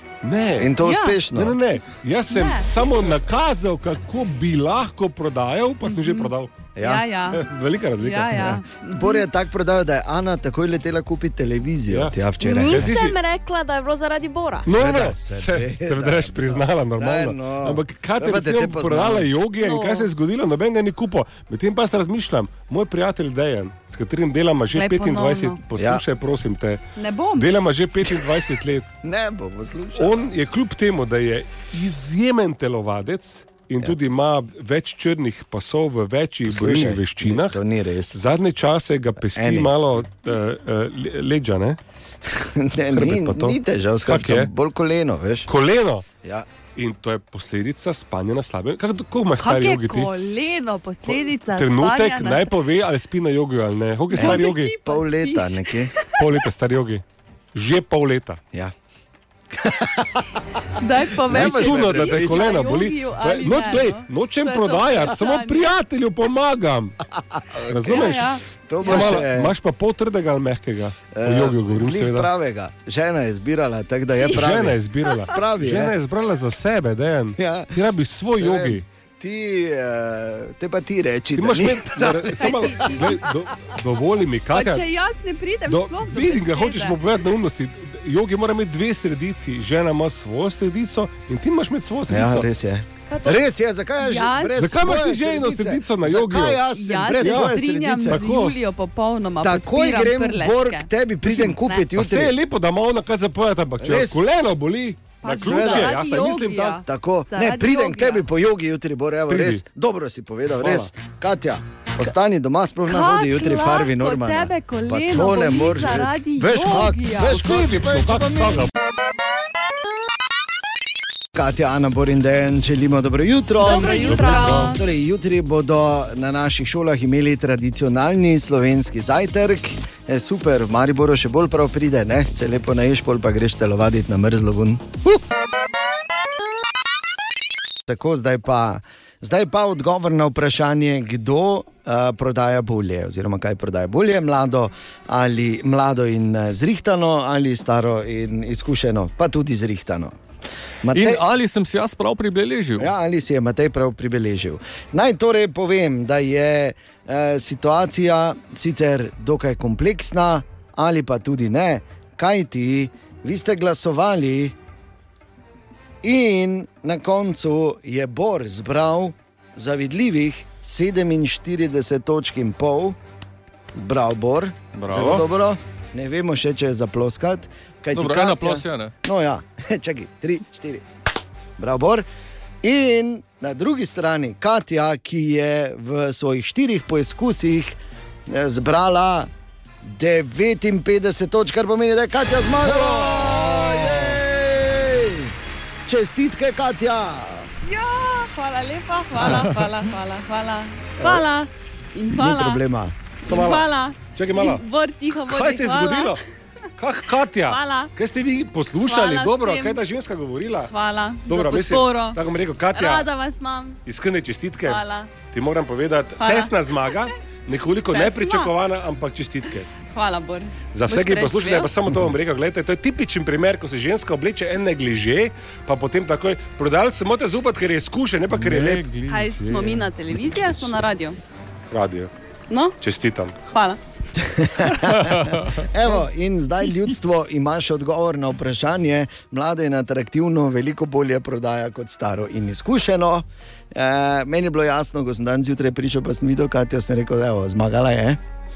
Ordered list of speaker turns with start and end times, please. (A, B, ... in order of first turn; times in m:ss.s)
0:00.2-0:00.7 A
0:00.6-0:01.6 B
0:00.8-0:01.2 C
0:01.3-0:06.6 A
0:02.3-0:03.1 C
0:05.8-0:07.4 C
0:06.8-0:07.0 B
0:07.3-0:08.6 A
0:08.0-0:09.2 C
0:08.9-0:12.9 B
0:11.9-0:13.2 A
0:12.4-0:14.8 D
0:14.7-0:19.3 B
0:14.7-0:26.8 A
0:19.6-0:20.1 C
0:24.7-0:25.6 C
0:25.8-0:26.0 B
0:27.0-0:27.5 C
0:27.4-0:28.9 A
0:29.0-0:30.3 B
0:30.0-0:37.6 A
0:36.5-0:38.2 B
0:38.1-0:41.8 A
0:39.2-0:40.0 B
0:42.3-0:45.5 B
0:42.9-0:44.5 A
0:45.5-0:46.0 A
0:46.8-0:50.1 A
0:49.4-0:52.6 C
0:51.1-0:54.7 A
0:54.1-0:56.2 C
0:54.2-0:55.9 B
0:56.2-0:57.0 A
0:57.6-0:58.4 A
0:59.5-1:00.4 B
1:00.8-1:05.7 C
1:01.2-1:02.6 B
1:01.3-1:07.0 A
1:07.3-1:08.1 B
1:07.6-1:12.3 A
1:07.8-1:09.1 C
1:08.7-1:09.5 B
1:11.1-1:16.0 B
1:14.3-1:18.8 A
1:17.4-1:23.2 B
1:21.4-1:24.9 A
1:22.4-1:23.2 C
1:24.5-1:27.0 C
1:25.7-1:32.5 A
1:32.1-1:38.3 B
1:34.0-1:34.8 C
1:34.5-1:36.6 A
1:36.7-1:40.9 C
1:37.2-1:38.6 A
1:39.4-1:42.4 B
1:41.2-1:46.8 A
1:41.6-1:41.9 C
1:43.8-1:44.3 B
1:45.2-1:48.3 C
1:45.2-1:46.0 B
1:46.8-1:58.7 B
1:49.3-1:49.6 A
1:50.6-1:50.9 A
1:52.9-1:57.5 C
1:57.2-1:58.7 A
2:01.3-2:15.2 B
2:03.6-2:04.8 C
2:03.8-2:04.8 A
2:17.9-2:30.2 B
2:30.8-2:31.2 B
2:30.9-2:32.9 E
2:32.8-2:44.6 B
2:46.0-2:53.0 B
2:53.7-3:00.8 B
2:54.8-2:55.2 E
2:57.9-2:58.9 E
3:01.6-3:02.1 B
3:02.6-3:07.8 B
3:08.3-3:09.3 B
3:09.8-3:15.3 B
3:15.9-3:17.5 B
3:17.6-3:22.6 C
3:22.1-3:23.0 B
3:23.2-3:26.2 C
3:23.2-3:26.2 A
3:26.8-3:30.7 A
3:27.5-3:27.9 C
3:28.8-3:29.8 C
3:30.7-3:32.2 C
3:31.3-3:33.1 A
3:32.7-3:33.8 C
3:33.9-3:39.7 A
3:34.6-3:35.1 C
3:36.2-3:37.1 C
3:37.9-3:38.5 C
3:39.9-3:41.7 C
3:40.7-3:48.9 A
3:48.3-3:50.8 E
3:49.1-3:51.2 C
3:51.7-3:52.1 A
3:52.5-3:52.8 C
3:52.8-3:53.4 A
3:53.5-3:53.8 C
3:54.2-4:08.2 B
3:55.0-3:55.5 E